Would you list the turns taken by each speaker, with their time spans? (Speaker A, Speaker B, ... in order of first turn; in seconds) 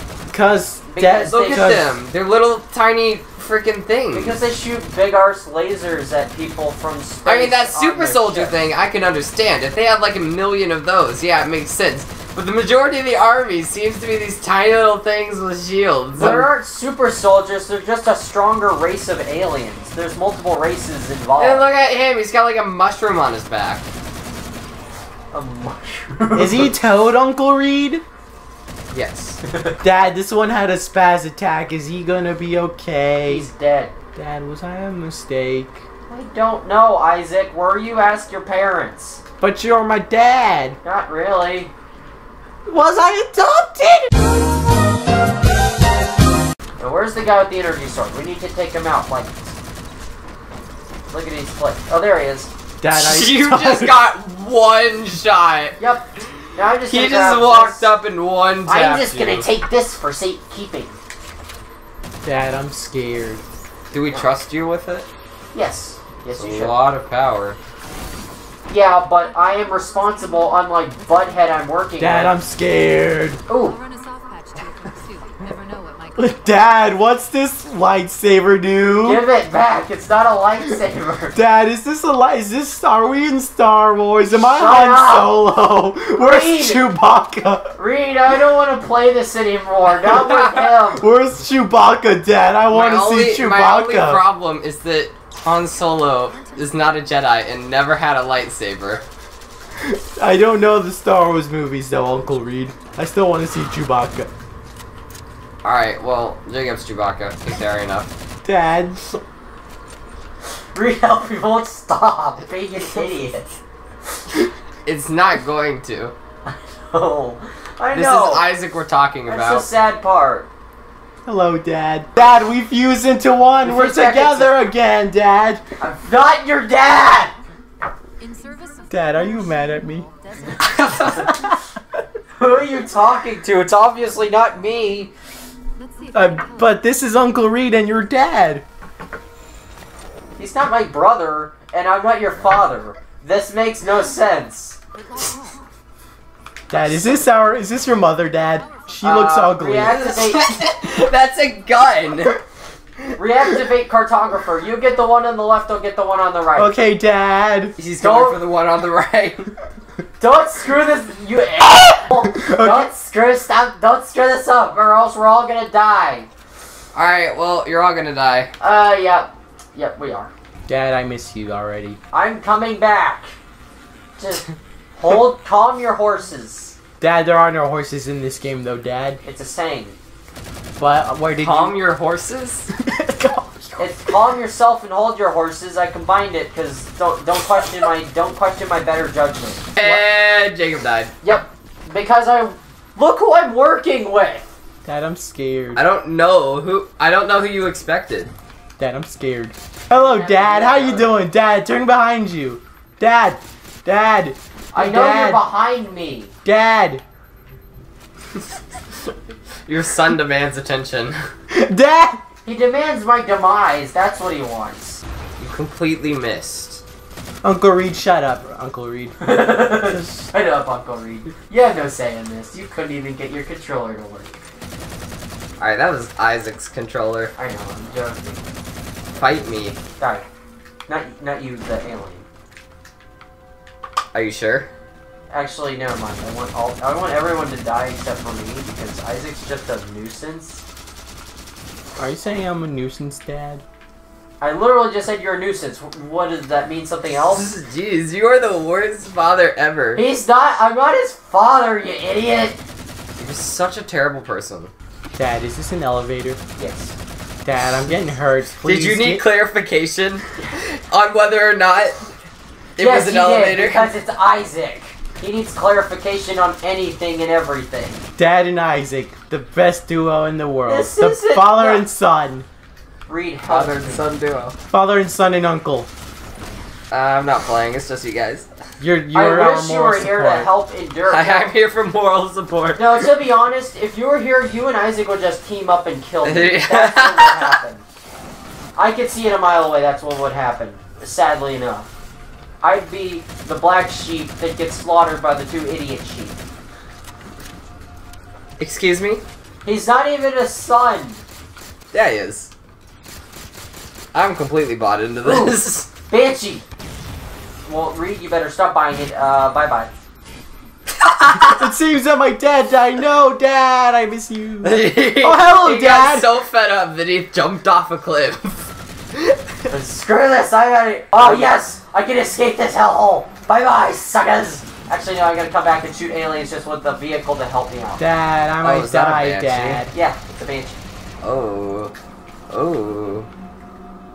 Speaker A: 0.3-1.9, 26.3-28.0, 29.8-33.5, 34.1-35.9, 39.4-40.8, 42.7-44.1, 52.8-54.0, 62.2-63.4, 72.0-73.4, 76.2-79.2, 81.3-87.8, 90.9-94.2, 99.8-104.3, 108.4-109.0, 121.3-125.6, 128.9-130.1, 131.0-131.6, 136.1-138.6, 146.7-150.1, 156.6-157.8, 162.2-162.9, 170.7-172.0, 177.0-179.2, 180.8-181.8, 182.7-183.9, 194.8-195.8, 198.8-205.4, 206.4-207.0, 211.5-212.2, 217.4-220.3, 242.0-243.6, 255.2-256.4, 257.4-259.2, 268.2-272.5, 274.7-275.9, 278.8-280.5, 311.4-316.3, 328.0-329.9
Speaker B: 0.9-1.8, 4.1-8.6, 16.2-21.6, 25.3-26.8, 29.4-29.8, 33.3-33.9, 36.1-39.2, 40.8-41.7, 46.8-49.5, 51.1-52.5, 55.8-57.9, 58.7-61.0, 65.5-66.8, 68.7-72.4, 73.5-73.8, 79.0-81.4, 84.4-85.4, 86.1-86.9, 87.8-91.0, 110.7-113.6, 116.5-118.5, 119.3-120.5, 123.6-124.6, 125.8-127.3, 130.7-131.3, 132.4-135.1, 140.4-144.8, 149.0-150.6, 153.2-156.8, 158.0-158.4, 160.2-166.3, 168.6-170.3, 172.1-173.3, 174.2-174.5, 175.0-176.8, 179.2-180.0, 183.8-189.7, 191.2-194.6, 199.9-201.2, 204.7-206.3, 212.4-215.0, 219.2-224.4, 227.4-228.5, 230.0-230.2, 230.9-232.2, 235.3-240.6, 244.4-247.5, 250.0-252.6, 256.6-257.0, 262.8-268.1, 270.7-271.9, 273.1-274.1, 279.1-281.5, 282.8-287.8, 288.8-291.9, 292.6-296.4, 299.6-301.2, 305.2-306.6, 307.6-309.9, 319.7-328.0, 329.9-330.8
Speaker C: 1.3-4.4, 7.3-16.5, 21.4-23.9, 28.9-29.4, 52.9-55.8, 56.9-59.5, 63.9-65.1, 66.3-67.6, 90.0-90.8, 92.7-99.0, 105.6-108.1, 114.9-116.1, 117.9-119.7, 130.6-131.2, 149.8-152.4, 157.8-159.5, 166.9-168.5, 181.4-182.7, 189.8-191.1, 195.8-198.3, 209.7-211.3, 215.4-216.8, 225.6-227.3, 229.2-229.8, 234.1-234.7, 247.2-250.0, 253.2-254.7, 258.6-262.1, 262.8-263.9, 273.5-274.6, 276.9-278.5, 281.1-283.0, 286.2-287.6, 298.6-299.2, 301.9-302.5, 304.1-305.9, 311.0-311.6, 314.6-319.3, 328.6-329.9, 331.2-331.9, 332.5-333.3
Speaker D: 69.2-71.5, 73.5-76.8, 96.3-96.6, 128.2-131.4, 135.8-136.8, 144.9-145.7, 148.5-149.2